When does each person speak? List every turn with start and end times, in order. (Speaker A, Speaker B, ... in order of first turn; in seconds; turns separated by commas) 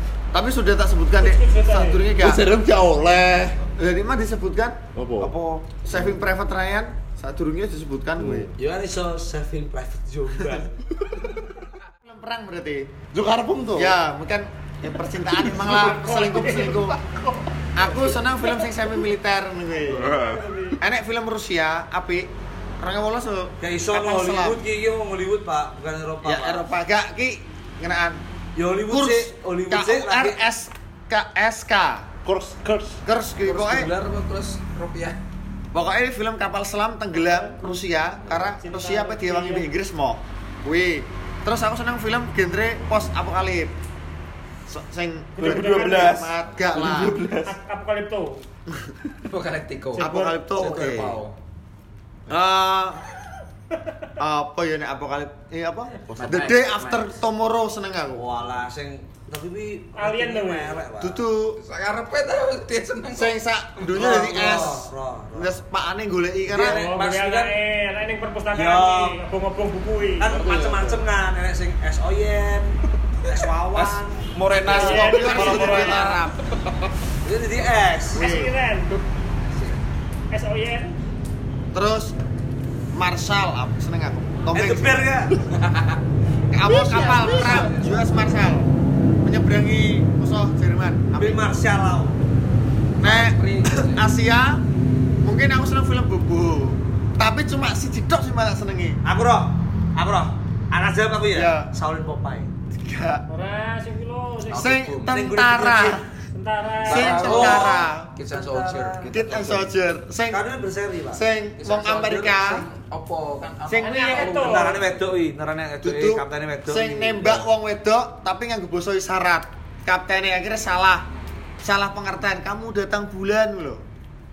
Speaker A: 0.3-2.5, Speaker B: 1.2-2.1, Speaker C: 2.2-3.6, Speaker A: 3.8-4.8, Speaker C: 5.0-5.3, Speaker D: 5.2-5.8, Speaker A: 5.8-8.5, Speaker C: 8.2-8.5, Speaker E: 8.6-10.8, Speaker A: 12.0-12.9, Speaker C: 13.1-13.9, Speaker A: 13.7-17.0, Speaker B: 15.6-16.9, Speaker C: 17.1-17.3, Speaker A: 17.8-20.2, Speaker C: 19.9-20.7, Speaker B: 19.9-20.8, Speaker A: 20.8-24.6, Speaker E: 23.6-26.7, Speaker A: 26.2-28.2, Speaker E: 28.5-30.4, Speaker A: 28.9-32.1, Speaker C: 32.2-33.0, Speaker A: 33.0-33.9, Speaker F: 33.4-35.2, Speaker A: 35.7-43.7, Speaker B: 38.6-39.7, Speaker A: 44.7-47.2, Speaker B: 45.3-46.3, Speaker C: 45.4-47.5, Speaker D: 45.5-46.2, Speaker D: 46.9-47.4, Speaker B: 47.0-48.4, Speaker F: 49.2-51.4, Speaker B: 50.0-50.7, Speaker A: 50.0-51.2, Speaker A: 52.3-53.0, Speaker A: 54.2-58.3, Speaker F: 56.1-57.1, Speaker E: 58.1-61.2, Speaker B: 60.0-60.8, Speaker A: 61.0-61.6, Speaker F: 61.6-63.4, Speaker A: 63.1-66.8, Speaker E: 63.9-65.6, Speaker E: 66.5-67.6, Speaker B: 66.5-70.3, Speaker E: 68.5-69.2, Speaker E: 70.2-75.0, Speaker C: 70.3-71.0, Speaker D: 73.7-76.3, Speaker A: 74.6-76.2, Speaker B: 74.7-76.0, Speaker F: 75.2-76.2, Speaker E: 77.2-78.2, Speaker B: 78.1-79.0, Speaker A: 78.1-78.5, Speaker B: 80.3-81.0, Speaker A: 81.7-82.2, Speaker A: 82.9-85.1, Speaker E: 84.5-85.4, Speaker F: 85.6-85.9, Speaker A: 86.5-88.7, Speaker F: 86.7-88.0, Speaker A: 89.2-91.6, Speaker E: 91.1-92.2, Speaker F: 93.0-94.0, Speaker A: 93.0-94.6, Speaker A: 95.2-99.0, Speaker E: 99.0-102.5, Speaker A: 101.3-101.7, Speaker A: 102.7-103.2, Speaker B: 103.3-104.8, Speaker F: 104.5-105.2, Speaker A: 104.5-106.0, Speaker E: 105.0-106.0, Speaker B: 106.3-107.4, Speaker F: 106.8-109.0, Speaker A: 106.9-108.1, Speaker D: 106.9-107.5, Speaker E: 107.5-109.5, Speaker D: 109.1-109.7, Speaker A: 109.1-110.4, Speaker E: 110.3-111.2, Speaker A: 111.1-112.7, Speaker F: 111.6-115.1, Speaker A: 113.7-114.3, Speaker B: 113.8-114.8, Speaker E: 114.1-117.5, Speaker A: 115.8-121.1, Speaker A: 121.6-123.8